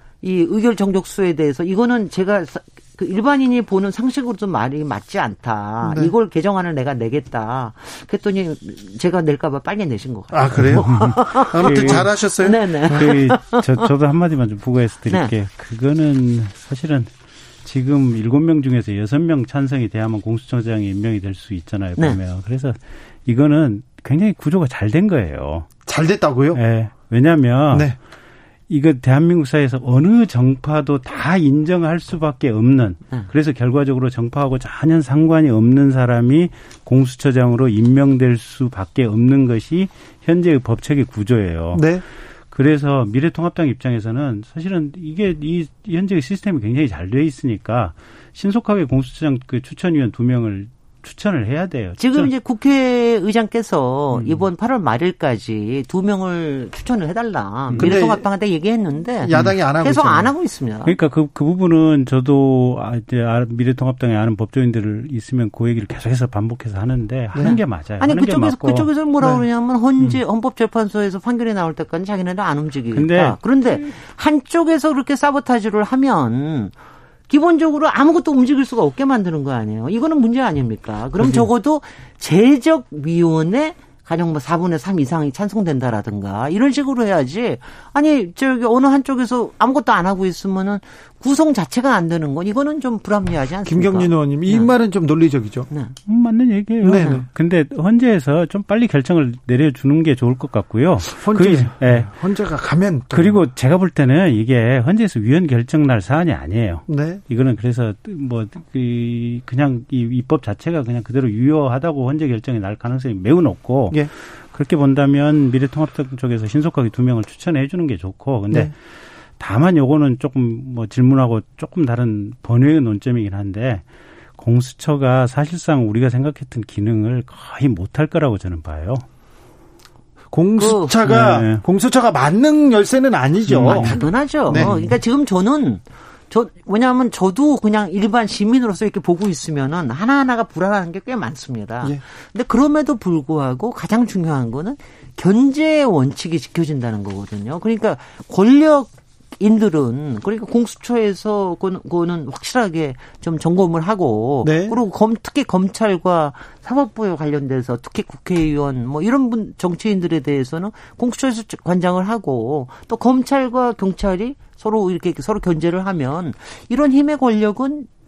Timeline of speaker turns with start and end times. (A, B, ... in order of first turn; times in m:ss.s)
0:00.2-0:13.9 A
0:05.8-0:06.1 B
0:10.3-0:13.1 B
0:10.6-0:12.2 C
0:12.9-0:17.1 C
0:15.1-0:15.3 A
0:17.6-0:25.7 C
0:25.9-0:26.6 B
0:26.5-0:27.9 C
0:28.7-0:41.9 C
0:41.7-0:42.0 B
0:42.5-0:52.3 C
0:52.0-1:01.0 A
0:54.1-0:54.5 C
0:57.7-0:58.0 C
0:57.8-0:58.3 B
0:59.2-1:00.3 B
0:59.4-0:59.6 C
1:00.8-1:08.9 C
1:07.4-1:16.7 A
1:12.9-1:13.4 C
1:17.3-1:34.7 A
1:33.6-1:35.7 B
1:35.7-1:36.0 A
1:36.1-1:42.1 C
1:36.8-1:37.2 B
1:37.0-1:37.2 A
1:41.2-1:43.4 B
1:43.1-1:58.7 C
1:46.9-1:47.2 B
1:59.4-2:03.8 C
2:04.4-2:09.0 C
2:10.3-2:14.0 B
2:10.6-2:11.0 A
2:11.0-2:11.6 C
2:13.5-2:14.0 C
2:13.6-2:47.9 A
2:14.5-2:14.9 B
2:34.4-2:34.8 B